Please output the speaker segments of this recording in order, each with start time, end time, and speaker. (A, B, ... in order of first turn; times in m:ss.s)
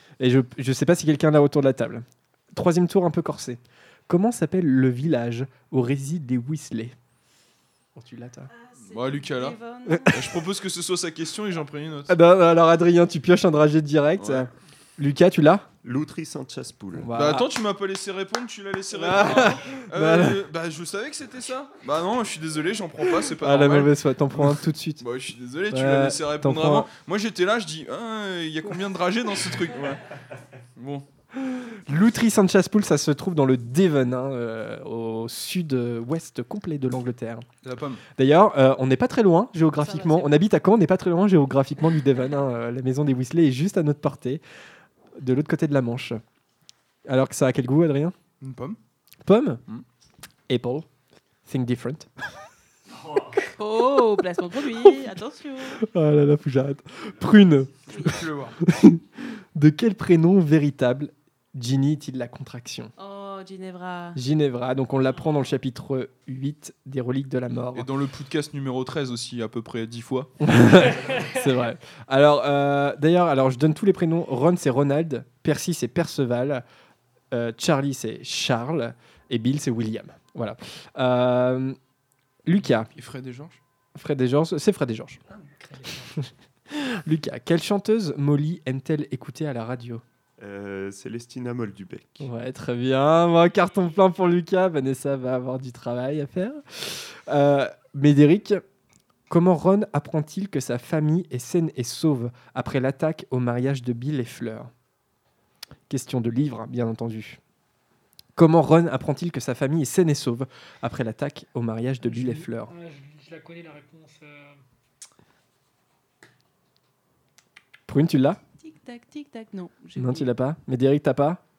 0:00.2-0:06.9 A
0:08.0-0:08.5 A
0:08.5-0:10.2 B
0:08.9-0:09.6 C
0:09.9-0:10.1 A
0:10.1-0:12.2 C
0:12.1-0:15.7 A
0:14.2-0:14.5 C
0:15.8-0:17.1 D
0:17.0-0:17.4 A
0:17.1-0:30.0 C
0:19.0-0:20.4 A
0:23.0-0:25.0 A
0:25.7-0:26.9 A
0:30.8-0:31.0 C
0:31.4-0:37.4 A
0:37.6-0:38.0 C
0:38.2-0:44.4 A
0:39.8-0:40.4 B
0:45.2-0:46.2 A
0:47.1-0:48.1 A
0:48.4-0:48.8 C
0:49.2-0:49.6 A
0:50.5-0:50.8 A
0:51.5-0:52.1 A
0:53.6-0:55.8 B
0:55.8-1:02.9 A
0:57.9-0:58.2 B
0:57.9-0:58.6 C
1:03.0-1:04.2 B
1:04.1-1:07.9 A
1:07.7-1:10.3 C
1:10.4-1:16.6 A
1:17.3-1:21.8 A
1:22.4-1:22.9 A
1:22.9-1:23.6 C
1:24.0-1:25.2 A
1:25.3-1:26.1 E
1:26.2-1:30.0 A
1:30.4-1:32.3 D
1:32.2-1:38.6 A
1:39.3-1:44.7 A
1:45.9-1:47.4 A
1:48.4-1:52.7 A
1:52.0-1:54.6 E
1:57.9-1:58.4 A
1:58.6-2:00.3 B
2:00.0-2:01.4 A